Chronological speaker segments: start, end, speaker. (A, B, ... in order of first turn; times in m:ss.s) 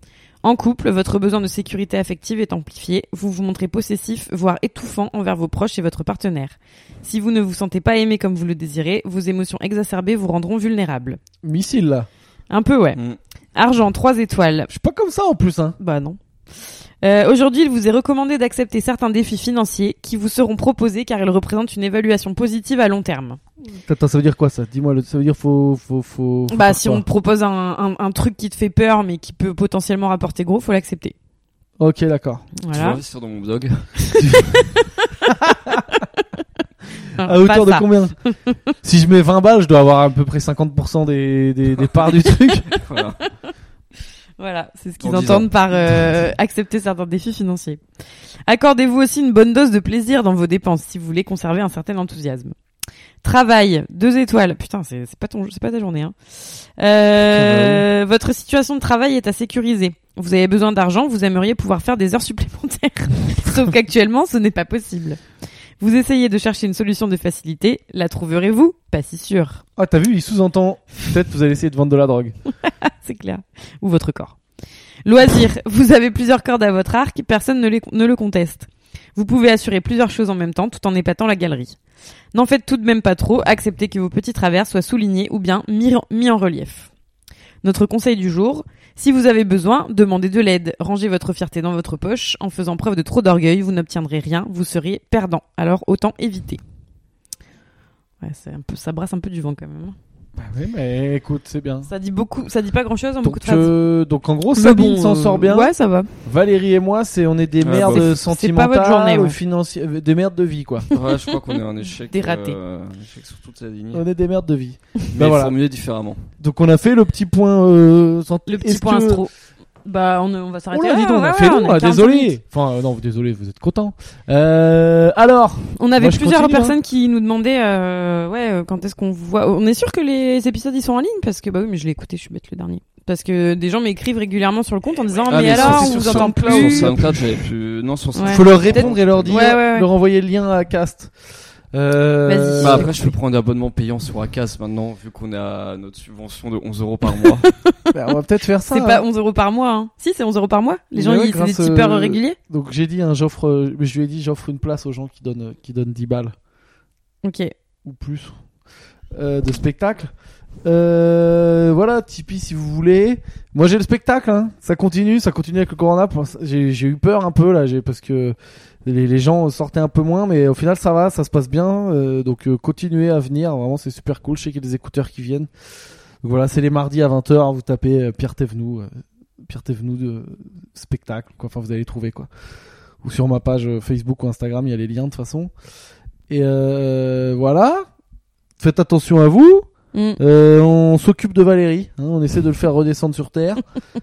0:00.4-0:11.2 A
0:11.4-0:12.1 B
0:12.5-0:13.0 A
0:13.5-0:14.7 A
0:14.7-0:15.8 B
0:15.8-0:23.4 A
0:23.8-0:27.0 B
0:26.5-0:31.1 A
0:31.8-0:32.5 B
0:32.6-0:33.0 A
0:32.7-0:34.0 C
0:34.0-0:35.0 A
0:34.2-0:34.4 B
0:35.2-0:36.0 B
0:37.2-0:38.6 A
0:37.2-0:38.2 B
0:38.8-0:42.7 B
0:42.7-0:43.2 C
0:44.4-0:47.8 A
0:45.0-0:46.2 C
0:48.4-0:52.5 A
0:53.2-1:05.2 A
0:57.3-0:57.8 B
1:05.8-1:09.6 A
1:09.8-1:12.3 B
1:12.6-1:14.4 A
1:15.0-1:21.8 A
1:22.3-1:26.9 A
1:27.6-1:36.6 A
1:38.2-1:40.0 A
1:40.4-1:41.9 B
1:41.9-1:43.7 A
1:43.2-1:45.7 B
1:44.5-1:46.1 A
1:46.2-1:50.8 B
1:47.6-1:48.2 C
1:47.9-1:49.4 A
1:50.9-1:51.4 A
1:50.9-1:54.0 C
1:52.1-1:52.6 A
1:53.9-1:55.5 B
1:55.1-1:56.2 C
1:56.4-1:59.3 B
1:58.5-1:59.3 A
1:59.8-2:02.3 A
2:00.7-2:06.8 B
2:05.8-2:17.0 A
2:15.3-2:19.4 C
2:15.3-2:17.2 B
2:18.1-2:19.9 A
2:18.3-2:21.1 B
2:21.7-2:22.9 B
2:22.2-2:23.1 A
2:22.6-2:27.5 C
2:27.2-2:27.9 A
2:27.9-2:29.0 B
2:28.7-2:32.4 A
2:30.9-2:36.3 B
2:37.2-2:37.5 A
2:37.8-2:38.3 B
2:39.1-2:40.1 B
2:40.6-2:55.5 B
2:56.2-3:02.3 B
3:03.0-3:05.5 B
3:06.3-3:07.8 B
3:08.6-3:09.7 B
3:09.9-3:10.2 A
3:10.2-3:13.6 B